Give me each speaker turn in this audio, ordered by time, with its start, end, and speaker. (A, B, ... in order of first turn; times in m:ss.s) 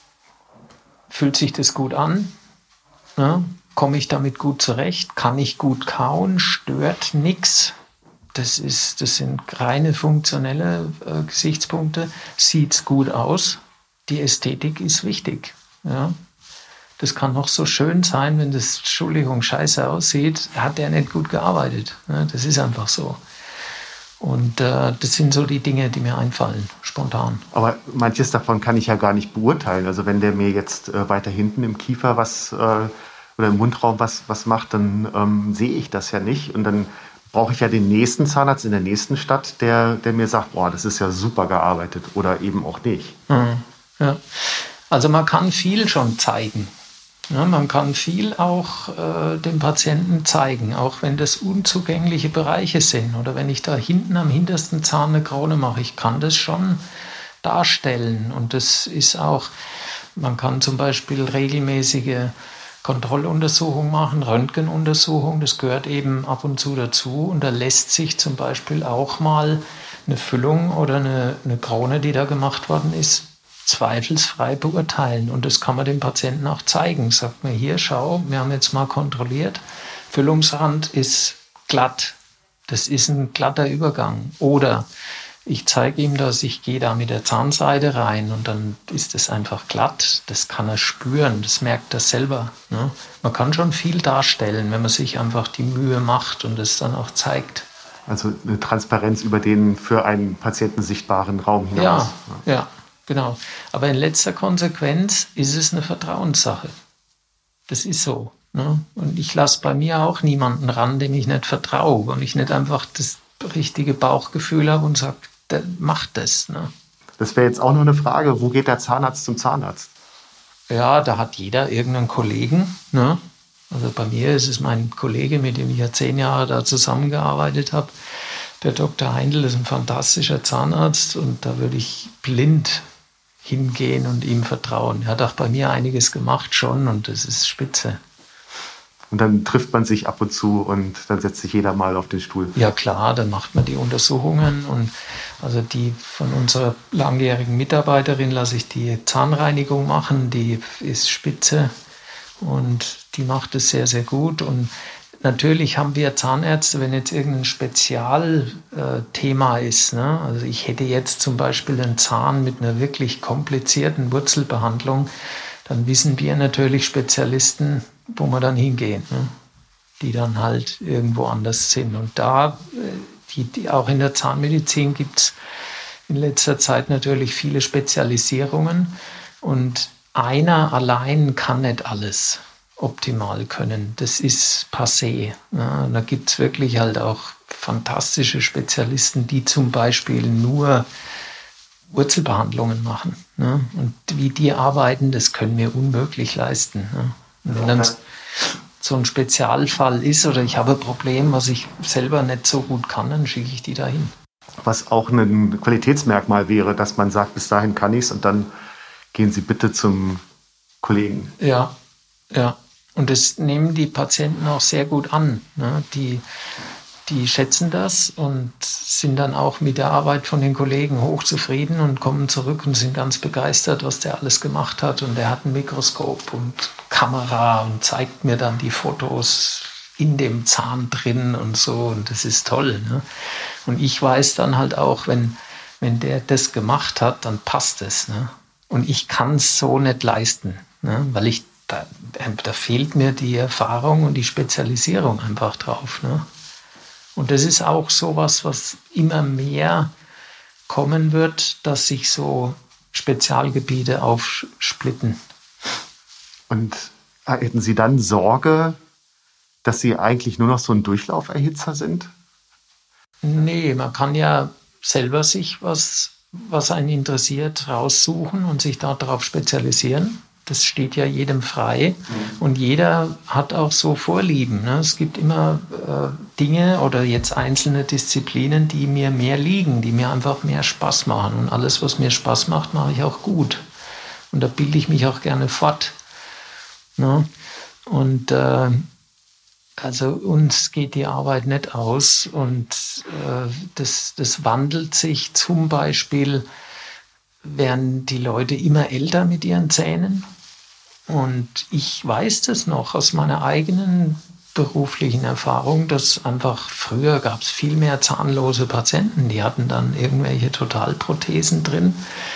0:01.1-0:02.3 A
0:03.2-0:07.7 A
0:08.3-0:16.2 A
0:17.0-0:23.2 A
0:24.2-0:27.4 A
0:27.5-0:43.2 B
0:43.3-0:46.7 A
0:47.3-0:56.8 A
0:57.4-0:59.5 A
1:00.2-1:22.2 A
1:22.7-1:24.8 A
1:25.4-1:37.6 A
1:38.1-1:42.4 B
1:41.7-1:46.7 A
1:47.7-1:56.7 A
1:57.2-1:59.9 B
2:00.7-2:07.9 A
2:08.6-2:12.8 A
2:13.4-2:18.0 A
2:19.1-2:22.6 B
2:22.6-2:31.7 A
2:32.4-2:45.1 A
2:45.6-2:49.3 A
2:50.0-2:55.3 A
2:56.1-3:10.9 A
3:11.9-3:24.1 A
3:17.5-3:17.9 B
3:24.6-3:28.5 B
3:29.1-3:30.2 B
3:30.8-3:31.3 B
3:31.4-3:31.7 A
3:32.3-3:36.2 A
3:37.0-4:06.2 A
4:07.2-4:09.9 A
4:10.7-4:15.2 A
4:16.5-4:18.8 B
4:19.6-4:22.1 B
4:23.2-4:43.6 A
4:44.3-4:45.9 A
4:47.0-4:47.3 A
4:47.9-4:48.9 A
4:49.8-4:56.4 A
4:57.4-5:00.3 A
5:01.1-5:12.0 A